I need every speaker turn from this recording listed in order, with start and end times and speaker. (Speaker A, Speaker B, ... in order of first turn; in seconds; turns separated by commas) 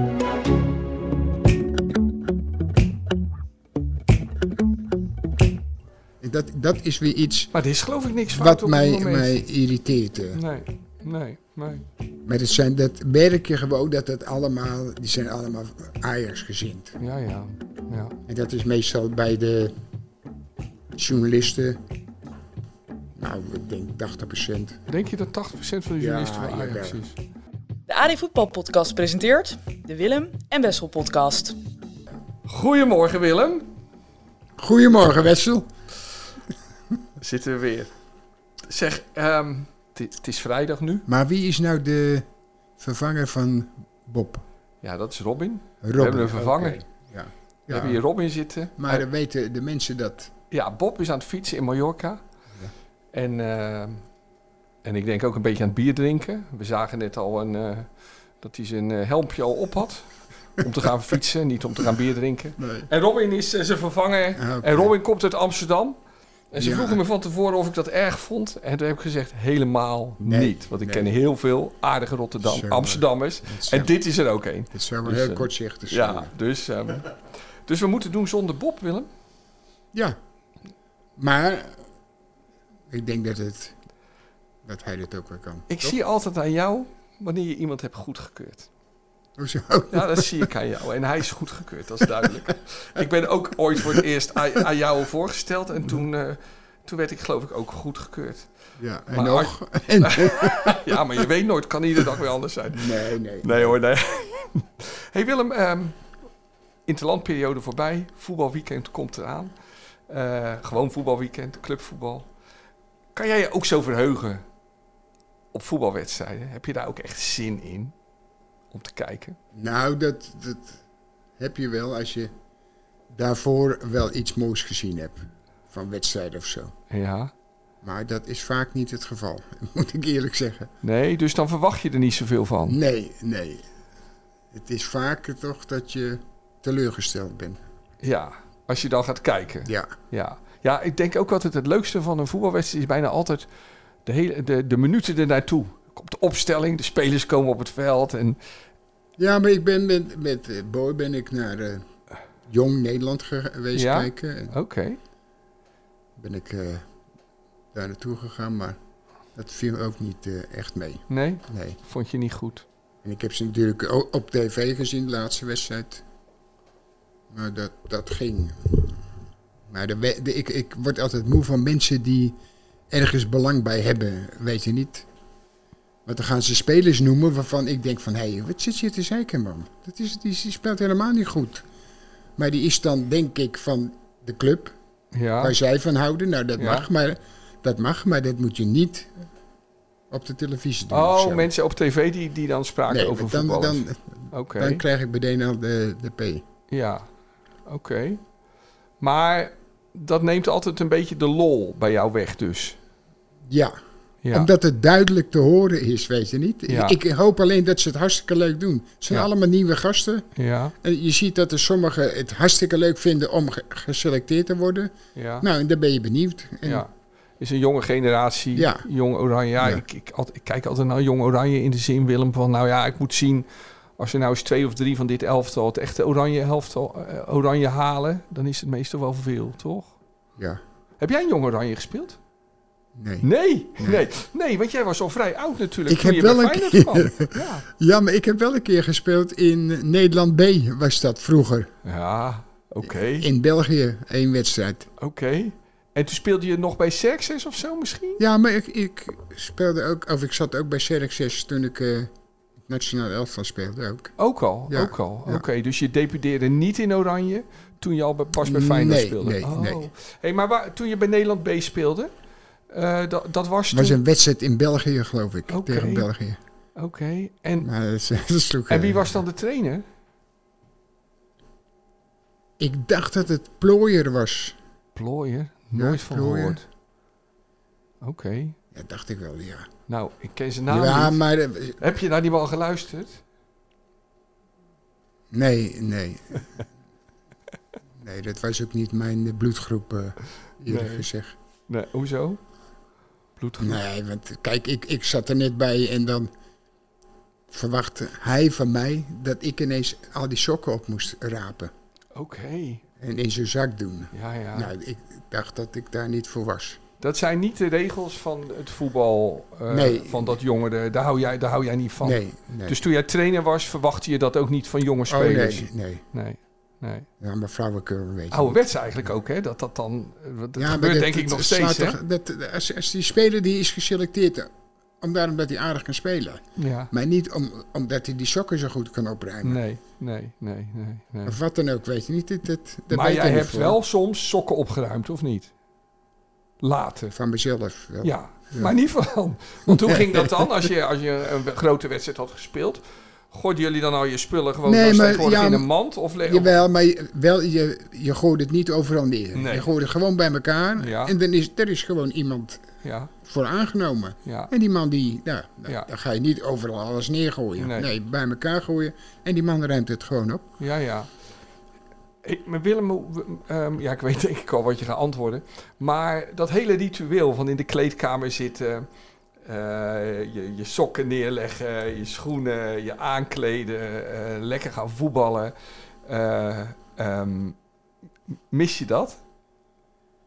Speaker A: 6.2-7.5, Speaker B: 7.5-9.4, Speaker A: 8.3-10.4, Speaker B: 10.3-11.9, Speaker A: 12.2-17.0, Speaker B: 17.0-18.2, Speaker A: 18.3-19.7, Speaker A: 20.9-21.8, Speaker A: 23.2-24.8, Speaker B: 24.9-27.2, Speaker A: 26.0-27.0, Speaker C: 27.9-31.6, Speaker B: 32.5-33.7, Speaker A: 34.6-35.7, Speaker B: 37.2-37.9, Speaker B: 38.7-41.0, Speaker A: 41.1-42.3, Speaker A: 42.8-44.4, Speaker B: 44.8-46.8, Speaker A: 45.8-48.0, Speaker B: 47.7-49.0, Speaker A: 48.8-50.3, Speaker B: 50.5-52.2, Speaker B: 53.1-54.0, Speaker B: 54.8-66.0, Speaker A: 62.6-62.9, Speaker A: 64.3-64.9, Speaker B: 66.5-79.1, Speaker A: 66.6-67.0, Speaker A: 70.2-71.1, Speaker A: 72.4-73.9, Speaker A: 74.7-76.3, Speaker A: 81.2-81.8, Speaker A: 82.9-83.7, Speaker A: 84.6-86.0, Speaker B: 85.7-88.7, Speaker A: 89.4-90.5, Speaker B: 89.9-98.5, Speaker A: 92.0-92.3, Speaker A: 98.8-101.0, Speaker B: 99.1-106.0, Speaker A: 102.7-103.8, Speaker B: 106.8-109.5, Speaker B: 110.1-112.3, Speaker B: 113.1-114.4, Speaker B: 115.5-117.9, Speaker B: 118.7-119.4, Speaker A: 119.5-120.8, Speaker A: 121.4-122.3, Speaker A: 123.1-126.7, Speaker B: 126.9-127.3, Speaker A: 127.8-130.7, Speaker B: 130.8-132.8, Speaker A: 132.7-133.7, Speaker A: 134.5-137.6, Speaker B: 138.0-143.5, Speaker A: 139.7-139.9, Speaker B: 144.1-148.4, Speaker A: 149.2-151.8, Speaker A: 152.5-154.5, Speaker B: 153.7-155.0, Speaker A: 156.2-156.9, Speaker A: 157.7-158.8, Speaker A: 159.3-161.8, Speaker B: 161.1-162.7, Speaker A: 163.0-166.0, Speaker A: 167.3-168.9, Speaker A: 169.7-172.4, Speaker A: 172.9-175.1, Speaker A: 176.1-181.7, Speaker A: 182.4-184.7, Speaker B: 185.1-185.6, Speaker A: 185.4-189.1, Speaker B: 186.6-186.9, Speaker A: 190.1-191.5, Speaker B: 190.9-194.8, Speaker A: 192.9-196.4, Speaker B: 196.7-197.1, Speaker B: 197.7-198.2, Speaker B: 199.0-202.8, Speaker A: 203.5-203.8, Speaker B: 204.2-204.5, Speaker A: 204.3-210.3, Speaker B: 206.7-207.0, Speaker B: 210.4-210.7, Speaker A: 210.8-216.8, Speaker B: 215.2-215.5, Speaker B: 216.7-223.5, Speaker A: 218.5-218.9, Speaker B: 224.0-229.9, Speaker B: 231.0-232.2, Speaker A: 233.0-233.3, Speaker B: 233.2-237.7, Speaker A: 233.8-234.1, Speaker A: 235.9-241.7, Speaker B: 241.8-243.3, Speaker A: 242.8-244.9, Speaker B: 245.0-248.2, Speaker A: 248.2-252.1, Speaker A: 252.7-254.2, Speaker B: 254.2-262.1, Speaker A: 254.7-255.4, Speaker A: 258.4-259.9, Speaker B: 262.7-264.0, Speaker A: 263.7-266.4, Speaker B: 265.5-266.1, Speaker B: 266.8-267.7, Speaker A: 267.6-269.1, Speaker B: 268.7-269.8, Speaker A: 272.6-274.6, Speaker B: 274.9-276.6, Speaker A: 275.7-276.6, Speaker B: 278.0-278.6, Speaker A: 278.7-279.7, Speaker B: 279.9-281.2, Speaker A: 280.7-281.8, Speaker B: 281.8-283.2, Speaker A: 285.3-286.6, Speaker A: 288.0-291.3, Speaker B: 290.6-291.1, Speaker B: 291.7-292.4, Speaker B: 293.4-293.8, Speaker A: 293.6-296.3, Speaker A: 297.5-301.7, Speaker B: 302.1-302.8, Speaker A: 303.0-306.8, Speaker B: 304.1-304.7, Speaker B: 307.0-317.1, Speaker A: 309.7-310.4, Speaker A: 312.0-312.8, Speaker A: 315.1-316.0, Speaker A: 317.2-318.6, Speaker B: 318.3-322.0, Speaker A: 320.6-329.6, Speaker B: 326.6-326.9, Speaker B: 329.4-331.4, Speaker A: 331.2-333.8, Speaker B: 332.9-335.5, Speaker B: 336.6-337.1, Speaker A: 337.1-338.8, Speaker B: 338.0-346.6, Speaker A: 339.7-340.5, Speaker A: 344.6-345.7, Speaker A: 346.2-352.6, Speaker B: 349.3-349.7, Speaker B: 350.8-351.1, Speaker B: 352.8-353.1, Speaker A: 353.2-360.5, Speaker B: 354.2-354.5, Speaker B: 357.6-357.9, Speaker B: 360.6-361.1, Speaker B: 362.2-368.9, Speaker B: 369.4-375.5, Speaker B: 376.0-377.6, Speaker B: 378.5-379.2